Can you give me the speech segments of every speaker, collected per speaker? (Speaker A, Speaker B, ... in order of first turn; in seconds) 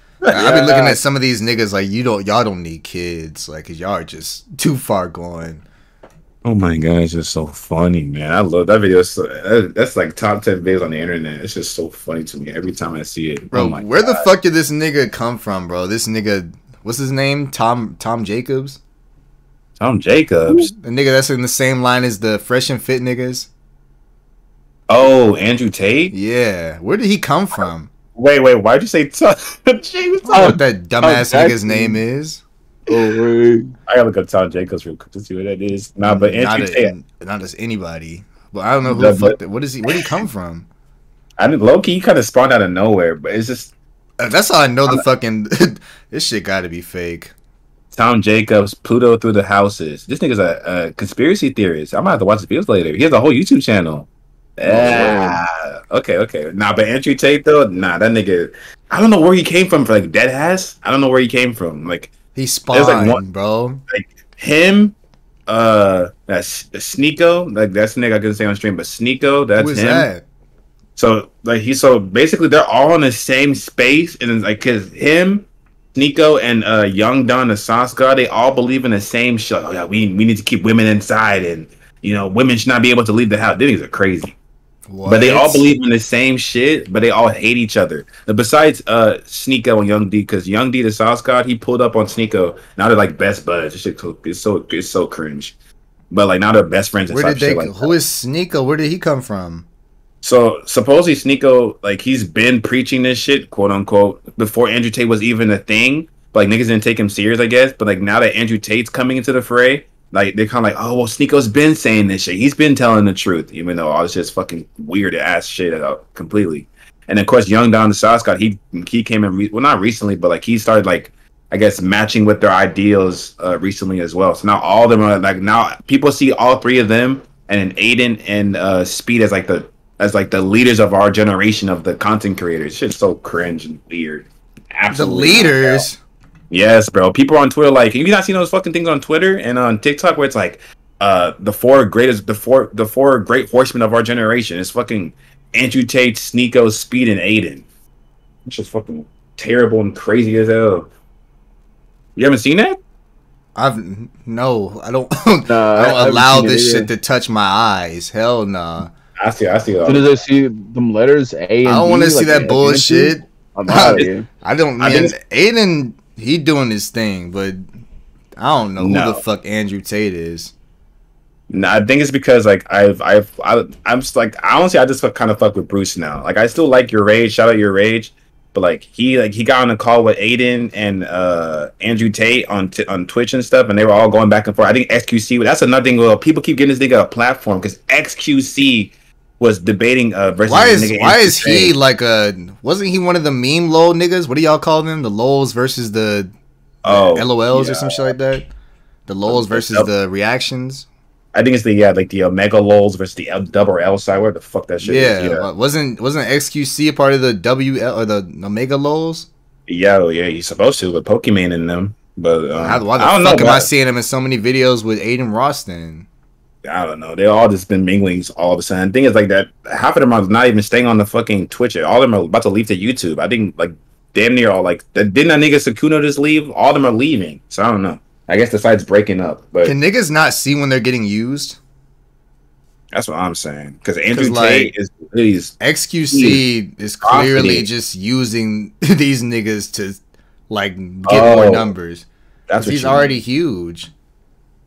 Speaker A: 0.3-5.6, 13.5-18.8, 20.7-23.5, 26.1-27.9, 30.3-32.4, 36.0-40.7, 44.2-47.3, 62.4-63.8, 69.6-70.2, 84.9-85.7, 97.1-99.7, 134.9-136.0, 153.6-158.9, 161.6-167.7, 168.4-170.5, 190.5-196.3, 196.9-198.5, 199.1-200.9, 204.8-209.3, 212.6-216.1, 229.6-231.6, 234.1-234.7, 235.6-243.9
Speaker B: 0.3-1.0, 30.3-32.0, 32.9-33.7, 54.6-55.4, 155.5-156.9, 159.8-164.3
Speaker C: 6.4-14.3, 19.8-20.7, 24.9-26.1, 28.1-30.6, 33.9-36.9, 38.9-39.4, 39.9-40.1, 41.4-43.7, 47.9-62.1, 62.7-63.2, 63.9-65.0, 65.5-70.1, 71.0-84.4, 85.0-95.5, 96.1-98.0, 100.2-135.9, 136.5-147.7, 148.5-150.9, 152.2-152.8, 159.2-160.1, 164.8-165.2, 168.8-169.2, 171.5-191.8, 196.8-198.1, 199.3-199.9, 201.3-205.5, 209.7-213.7, 216.6-229.8, 232.9-235.6, 236.1-236.4, 237.0-237.7, 241.1-241.7, 242.5-243.2